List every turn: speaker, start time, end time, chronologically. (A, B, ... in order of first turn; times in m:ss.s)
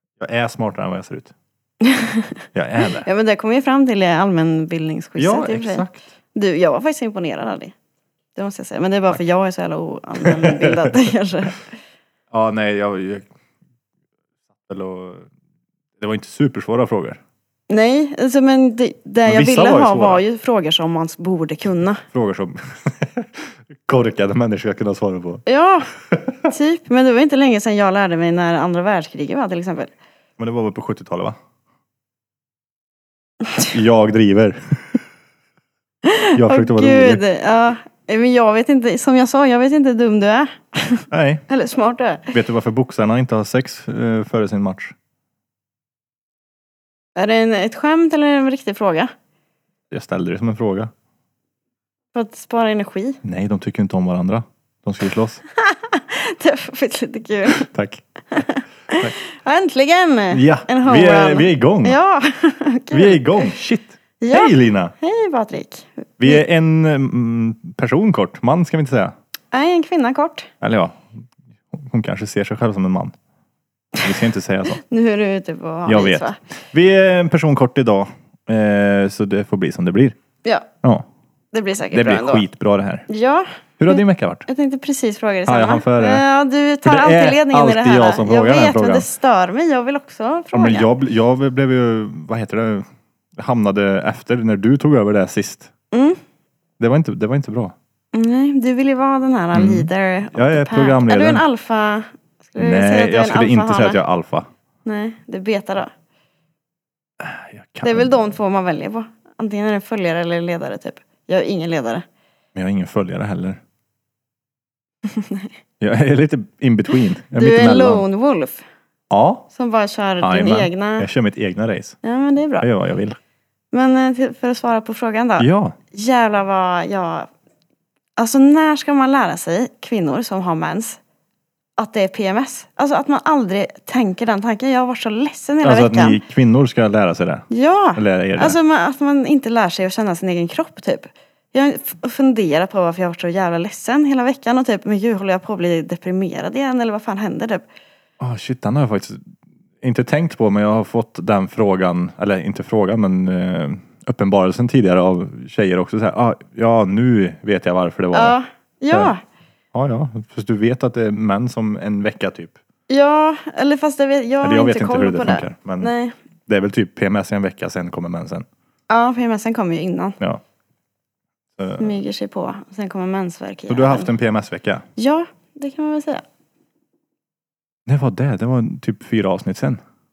0:00.2-0:01.3 A
0:01.8-0:02.3 B
0:02.5-0:03.1 A
0:03.0-0:07.7 B
0:05.2-0:06.0 A
0:08.4-0:11.7 B
0:10.2-0:11.1 A
0:12.3-0:13.3 A
0:14.6-0:15.3 A
0:16.0-0:17.2 A
0:17.7-0:22.0 B
0:19.2-0:20.2 A
0:22.1-0:25.4 A
0:25.5-0:25.9 B
0:26.1-0:26.4 A
0:26.5-0:29.9 B
0:30.4-0:31.4 A
0:33.7-0:35.0 A
0:36.0-0:42.3 B
0:36.4-0:37.2 A
0:41.1-0:41.4 A
0:42.3-0:45.0 A
0:47.2-0:49.1 B
0:49.9-0:50.9 A
0:52.1-0:53.2 B
0:53.2-0:55.4 A
0:55.6-0:57.7 B
0:57.6-0:58.4 A
0:58.3-1:03.6 B
1:00.3-1:02.0 A
1:02.9-1:04.9 A
1:04.2-1:06.4 B
1:06.2-1:09.1 A
1:09.5-1:10.5 B
1:10.6-1:11.2 A
1:11.7-1:13.1 A
1:14.0-1:14.8 A
1:14.8-1:16.4 B
1:15.9-1:20.2 A
1:21.5-1:22.4 B
1:21.9-1:23.1 A
1:23.1-1:30.9 B
1:23.8-1:24.4 A
1:25.5-1:26.2 A
1:26.8-1:29.1 A
1:30.5-1:35.7 A
1:35.9-1:36.2 B
1:36.8-1:37.8 A
1:38.1-1:44.0 B
1:39.5-1:41.4 A
1:42.6-1:44.5 A
1:44.8-1:45.9 B
1:47.2-1:48.1 A
1:47.8-1:52.0 B
1:52.6-1:53.6 A
1:55.1-1:55.5 B
1:55.8-1:58.0 A
1:57.4-1:58.6 B
1:59.1-1:59.5 A
1:59.5-2:01.1 B
2:00.2-2:02.0 A
2:02.0-2:02.7 B
2:02.6-2:03.2 A
2:03.7-2:07.3 B
2:05.4-2:05.8 A
2:08.2-2:11.0 B
2:11.8-2:16.2 B
2:15.6-2:18.6 A
2:17.5-2:27.6 B
2:28.2-2:29.2 A
2:29.8-2:38.4 A
2:38.1-2:39.2 B
2:39.7-2:42.6 A
2:42.9-2:46.1 B
2:44.4-2:45.9 A
2:46.5-2:48.5 A
2:48.9-2:50.2 B
2:51.6-2:52.0 A
2:51.8-2:54.1 B
2:53.7-2:54.8 A
2:55.0-2:56.2 B
2:57.9-2:59.8 A